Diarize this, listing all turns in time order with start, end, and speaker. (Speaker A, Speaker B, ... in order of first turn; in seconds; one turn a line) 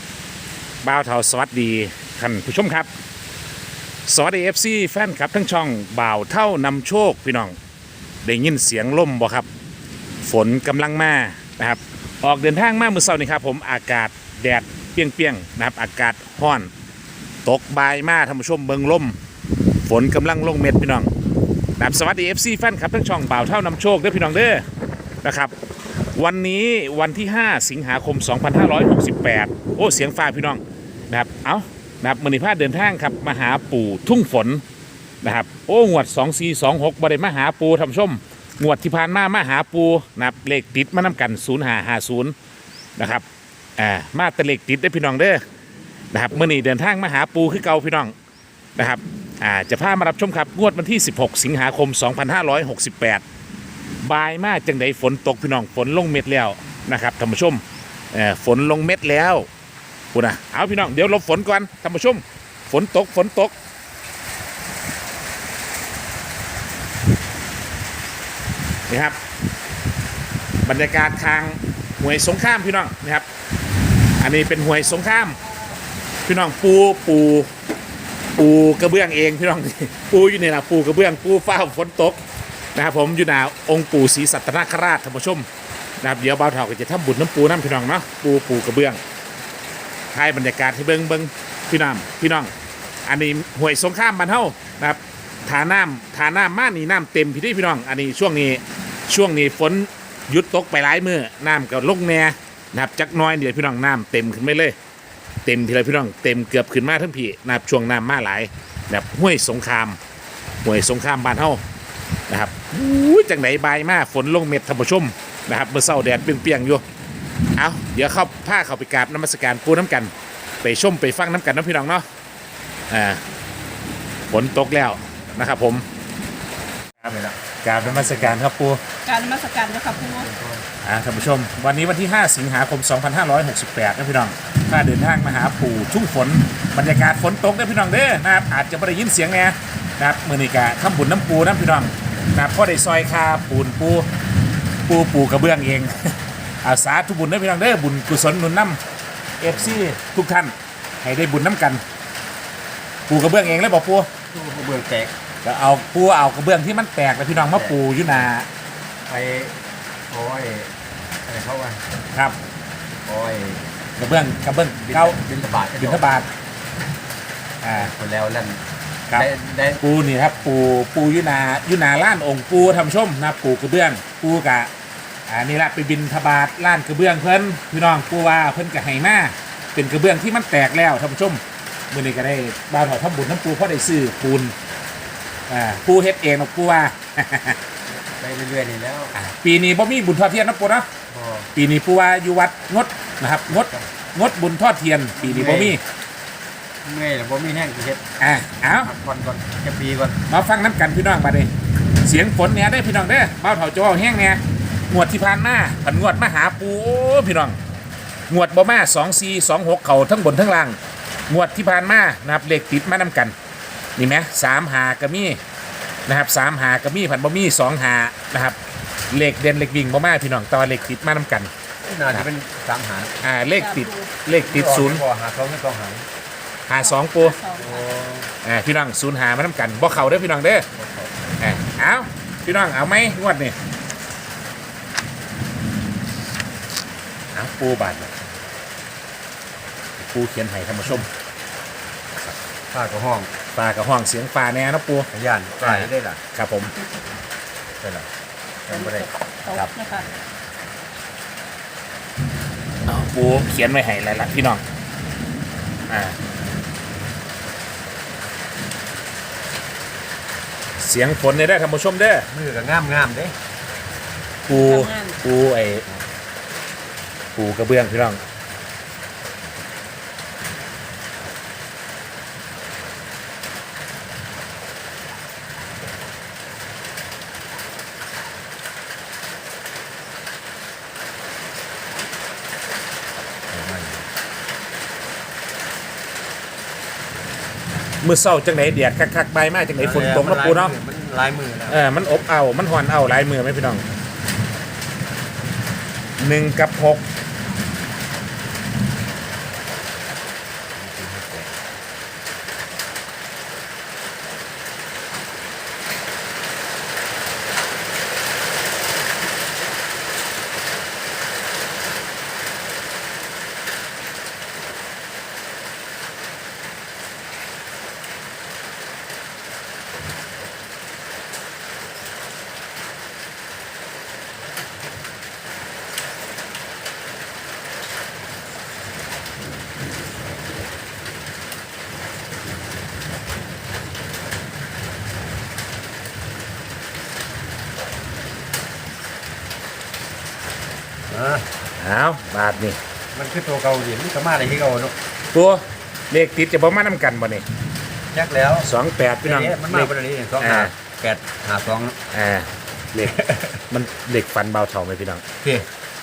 Speaker A: 0.8-2.9
Speaker A: 4.1-7.5
Speaker A: 8.2-9.5
Speaker A: 10.2-16.7
Speaker A: 17.4-19.2
Speaker A: 19.8-21.1
Speaker A: 21.8-24.6
Speaker A: 25.2-25.5
Speaker A: 26.1-34.6
Speaker A: 35.2-42.3
Speaker A: 43.0-43.2
Speaker A: 43.8-45.4
Speaker A: 46.1-48.1
Speaker A: 48.8-53.2
Speaker A: 54.0-59.5
Speaker A: 60.1-63.5
Speaker A: 68.9-69.2
Speaker A: 70.6-73.2
Speaker A: 74.2-75.4
Speaker A: 76.2-77.5
Speaker A: 78.4-82.2
Speaker A: 82.7-85.5
Speaker A: 86.0-89.0
Speaker A: 90.1-92.5
Speaker A: 93.0-104.8
Speaker A: 105.4-110.0
Speaker A: 110.6-111.6
Speaker A: 112.3-116.8
Speaker A: 117.5-120.1
Speaker A: 120.6-122.0
Speaker A: 122.9-123.2
Speaker A: 124.3-125.8
Speaker B: 127.0-128.4
Speaker A: 127.6-128.8
Speaker C: 129.1-130.3
Speaker B: 130.1-130.6
Speaker A: 130.8-144.1
Speaker A: 144.9-148.8
Speaker A: 149.4-151.8
Speaker A: 153.1-154.1
Speaker B: 154.3-155.1
Speaker A: 155.4-158.5
Speaker B: 157.5-157.8
Speaker B: 159.1-159.6
Speaker B: 160.1-160.7
Speaker B: 161.2-161.8
Speaker B: 163.1-163.7
Speaker A: 164.0-165.2
Speaker B: 164.8-166.2
Speaker A: 165.8-166.3
Speaker A: 167.6-167.9
Speaker B: 167.7-168.6
Speaker B: 169.1-169.8
Speaker A: 169.8-174.7
Speaker A: 175.3-184.5
Speaker A: 185.5-187.6
Speaker B: 188.2-189.1
Speaker A: 189.1-190.9
Speaker B: 191.1-191.5
Speaker A: 191.5-195.8
Speaker B: 193.5-193.9
Speaker B: 195.2-195.8
Speaker B: 196.8-198.0
Speaker A: 198.2-198.9
Speaker B: 198.8-200.2
Speaker A: 200.3-201.5
Speaker A: 202.0-207.6
Speaker A: 208.3-210.8
Speaker A: 211.3-213.3
Speaker A: 214.0-215.4
Speaker A: 216.1-218.6
Speaker A: 219.1-221.5
Speaker B: 221.8-223.1
Speaker A: 223.2-225.0
Speaker C: 223.5-224.1
Speaker B: 224.4-226.1
Speaker A: 226.7-227.4
Speaker C: 226.8-227.8
Speaker B: 227.5-228.3
Speaker A: 228.4-230.7
Speaker B: 230.7-231.2
Speaker A: 231.4-233.6
Speaker A: 237.3-238.1
Speaker A: 240.0-241.1
Speaker B: 242.7-243.3
Speaker A: 243.5-245.1
Speaker B: 245.1-246.2
Speaker A: 245.6-246.7
Speaker B: 247.8-248.1
Speaker B: 248.7-249.7
Speaker C: 248.7-250.1
Speaker A: 252.8-254.6
Speaker A: 255.9-256.2
Speaker A: 260.8-262.3
Speaker B: 262.3-263.3
Speaker A: 264.5-265.8
Speaker C: 264.5-265.2
Speaker A: 267.4-268.2
Speaker B: 283.5-284.0
Speaker A: 288.0-290.7
Speaker B: 289.8-291.8
Speaker A: 291.7-293.8
Speaker A: 296.2-297.0
Speaker B: 300.7-301.5
Speaker B: 341.1-341.5
Speaker A: 341.8-342.8
Speaker B: 343.1-344.9
Speaker A: 345.3-347.4
Speaker B: 348.1-348.7
Speaker A: 348.6-350.7
Speaker B: 349.2-352.0
Speaker A: 352.1-355.2
Speaker B: 353.0-353.6
Speaker B: 355.4-355.7